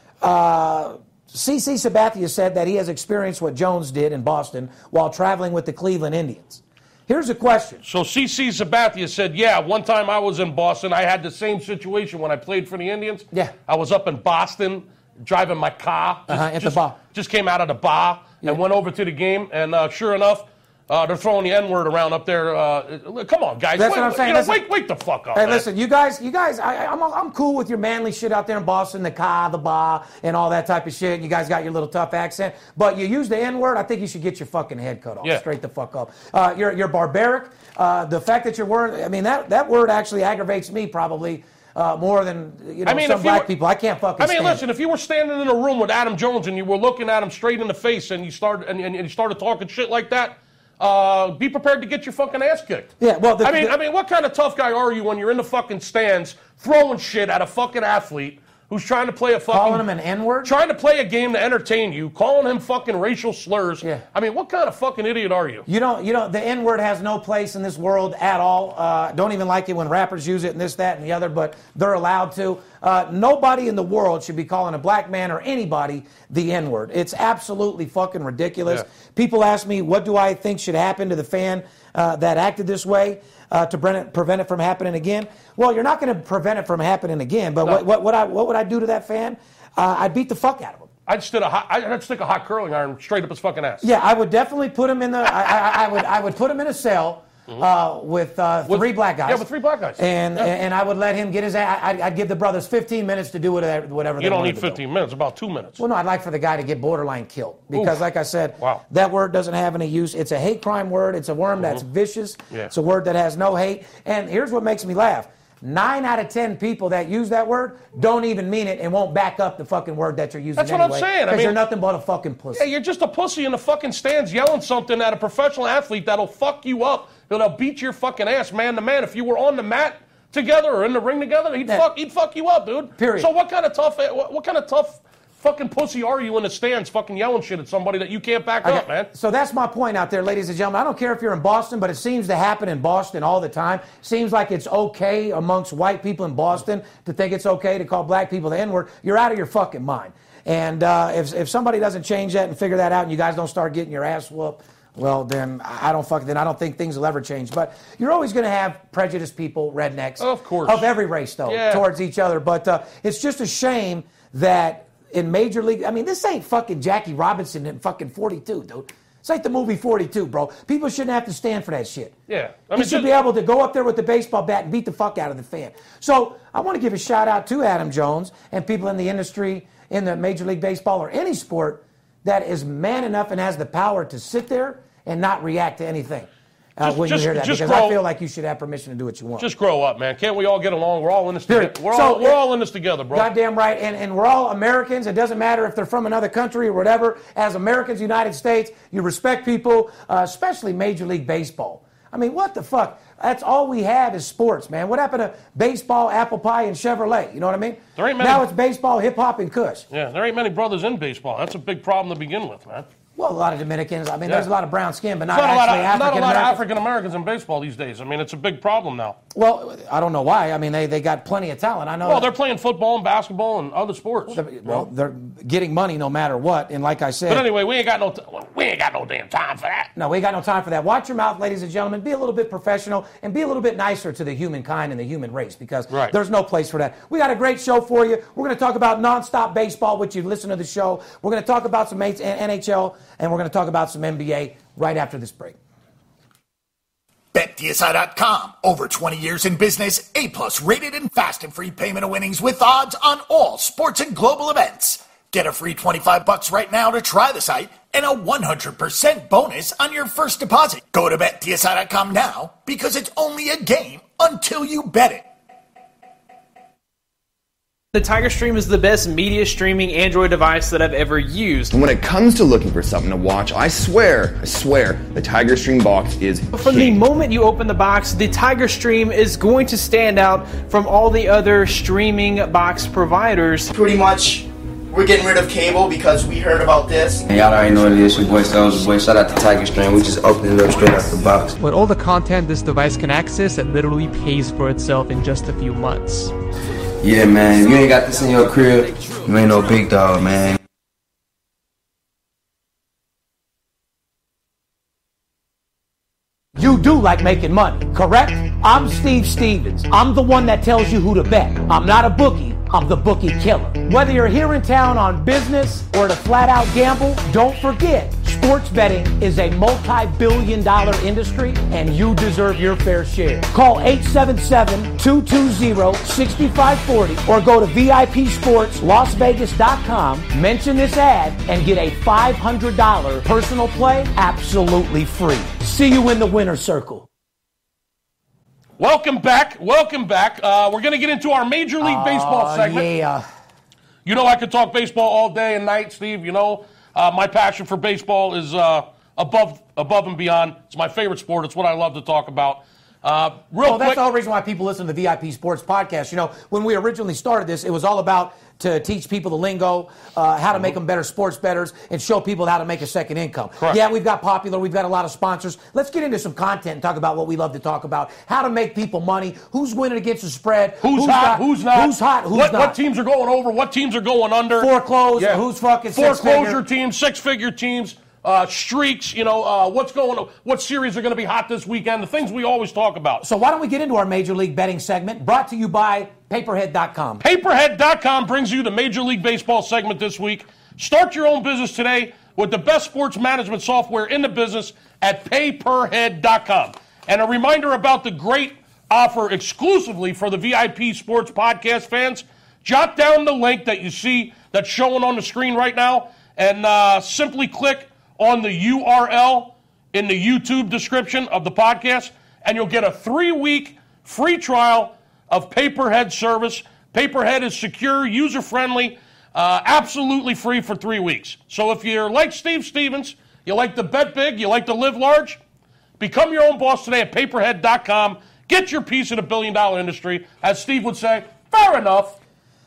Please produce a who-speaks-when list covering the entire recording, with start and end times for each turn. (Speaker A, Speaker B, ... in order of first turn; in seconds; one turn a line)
Speaker A: 0.2-7.8
Speaker B: 7.8-25.7
Speaker A: 16.3-17.0
Speaker A: 23.8-24.6
Speaker A: 25.3-44.6
Speaker B: 42.9-43.5
Speaker B: 44.2-52.9
Speaker A: 53.0-53.8
Speaker B: 53.4-59.9
Speaker A: 59.5-60.5
Speaker B: 60.4-65.7
Speaker A: 65.7-90.9
Speaker B: 91.1-93.9
Speaker A: 93.8-104.8
Speaker B: 98.7-100.5
Speaker B: 104.2-105.8
Speaker A: 105.8-122.7
Speaker B: 107.7-108.0
Speaker B: 120.6-121.6
Speaker B: 122.5-139.1
Speaker A: 133.0-133.3
Speaker A: 138.6-172.2
Speaker B: 160.2-160.9
Speaker B: 161.5-161.8
Speaker B: 172.3-173.1
Speaker A: 172.7-189.5
Speaker B: 186.8-188.0
Speaker B: 189.4-193.3
Speaker A: 191.5-192.4
Speaker A: 193.1-209.9
Speaker B: 208.0-208.4
Speaker B: 209.9-212.9
Speaker A: 213.2-216.6
Speaker B: 215.3-219.2
Speaker A: 219.3-222.3
Speaker B: 222.0-224.9
Speaker A: 224.3-227.5
Speaker B: 227.3-229.9
Speaker A: 230.0-245.6
Speaker B: 235.9-236.2
Speaker C: 247.3-265.3
Speaker D: 267.9-271.8
Speaker E: 271.7-277.0
Speaker D: 276.5-283.7
Speaker F: 283.7-287.3
Speaker G: 287.3-291.6
Speaker H: 291.6-296.3
Speaker G: 297.0-300.6
Speaker A: 306.6-337.1
Speaker B: 338.8-342.9
Speaker A: 341.8-343.2
Speaker B: 344.1-354.0
Speaker A: 353.6-372.8
Speaker B: 370.8-383.2
Speaker A: 374.6-376.6
Speaker A: 383.2-387.2
Speaker B: 387.2-425.4
Speaker B: 426.0-432.2